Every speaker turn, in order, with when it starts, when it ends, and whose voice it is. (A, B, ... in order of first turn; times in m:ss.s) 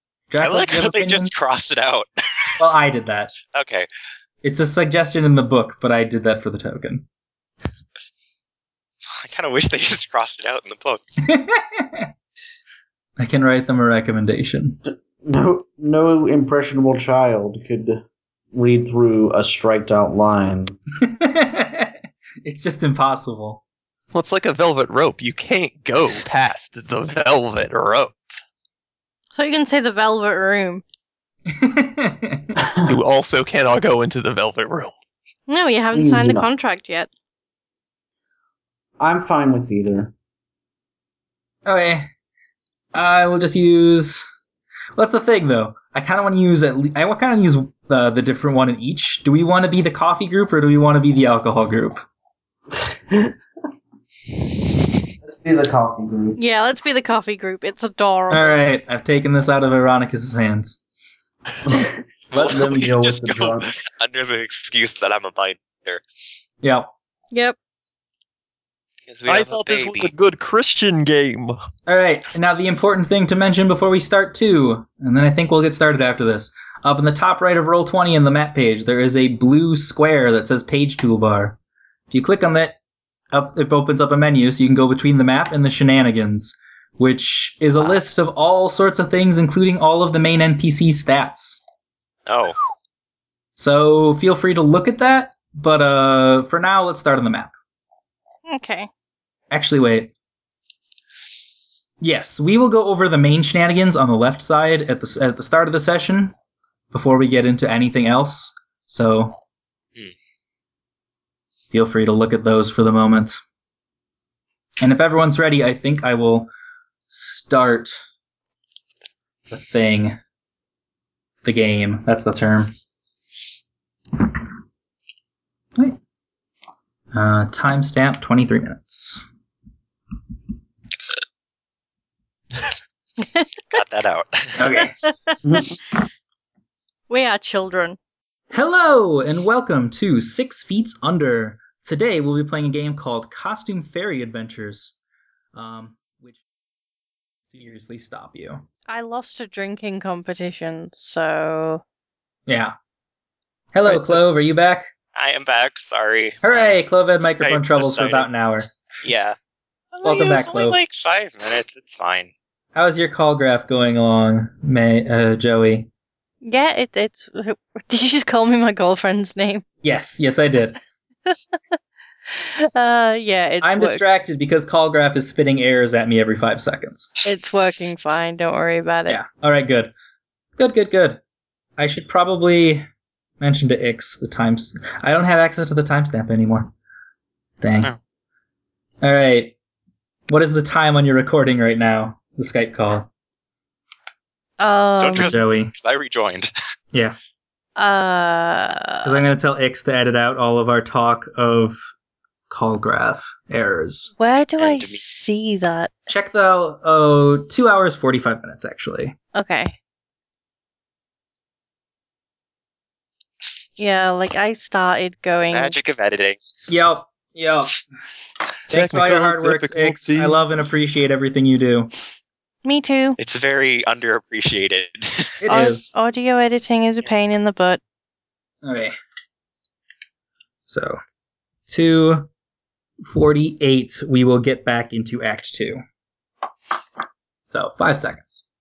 0:00.3-0:01.3 A
0:00.4-0:02.6 B
0:02.6-0:03.3 A
0:03.4-0:03.9 B
0:04.4-0:07.0 A
0:09.1-0:11.0 B
0:11.2-0:12.1 A
0:13.2-0:14.8 A
0:14.9-0:20.8 C
0:21.0-0:23.6 A
0:24.1-0:28.2 D
0:29.3-0:30.8 E
0:31.5-0:32.5 A
0:32.6-0:33.0 C
0:32.9-0:34.9 D
0:35.5-0:37.1 E
0:35.9-0:36.5 C
0:39.0-0:40.1 C
0:41.6-0:42.1 A
0:42.9-0:44.3 A
0:44.9-0:52.0 A
0:55.2-0:56.4 C
0:56.4-0:58.6 E
0:58.3-1:00.8 A
1:01.6-1:03.7 C
1:02.3-1:06.0 B
1:06.6-1:06.9 A
1:07.3-1:07.6 E
1:09.1-1:10.1 B
1:09.2-1:11.6 D
1:11.9-1:21.6 A
1:22.1-1:22.8 A
1:23.3-1:31.6 A
1:32.2-1:32.6 B
1:33.6-1:37.5 A
1:38.5-1:38.9 E
1:39.5-1:40.1 A
1:42.0-1:46.3 A
1:46.9-1:49.4 A
1:51.7-1:53.4 A
1:54.8-1:56.5 A
1:57.1-1:58.0 A
1:59.5-2:00.2 A
2:01.4-2:02.7 A
2:07.1-2:09.2 A
2:13.7-2:14.6 B
2:14.6-2:15.0 A
2:15.0-2:15.4 E
2:17.1-2:18.0 E
2:18.5-2:24.9 A
2:25.5-2:26.4 A
2:27.5-2:28.6 A
2:28.9-2:31.8 E
2:32.5-2:32.7 A
2:33.7-2:34.9 A
2:35.1-2:38.3 B
2:36.4-2:38.8 A
2:39.0-2:39.4 B
2:39.9-2:42.3 B
2:40.0-2:40.8 A
2:42.7-2:45.9 A
2:46.4-2:49.6 E
2:49.8-2:50.8 A
2:51.3-2:51.5 E
2:52.3-2:54.0 E
2:53.6-2:57.1 A
2:57.2-2:59.2 E
2:59.1-2:59.9 A
3:00.6-3:01.2 A
3:01.8-3:02.8 A
3:03.4-3:06.7 A
3:07.6-3:07.9 A
3:09.0-3:09.5 A
3:10.3-3:13.1 A
3:14.6-3:15.4 E
3:15.0-3:16.5 B
3:15.2-3:15.7 A
3:17.8-3:19.1 E
3:19.0-3:21.8 A
3:22.5-3:24.1 A
3:24.2-3:25.9 E
3:24.6-3:25.0 B
3:26.1-3:29.1 A
3:29.3-3:29.8 E
3:33.8-3:35.8 E
3:35.5-3:36.4 B
3:36.7-3:37.8 A
3:38.7-3:41.9 A
3:38.7-3:40.4 D
3:42.6-3:43.2 E
3:43.2-3:45.3 B
3:45.4-3:45.9 A
3:45.5-3:47.8 E
3:48.6-3:49.0 A
3:50.7-3:51.0 A
3:51.7-3:52.3 A
3:53.0-3:55.8 A
3:57.5-3:58.4 A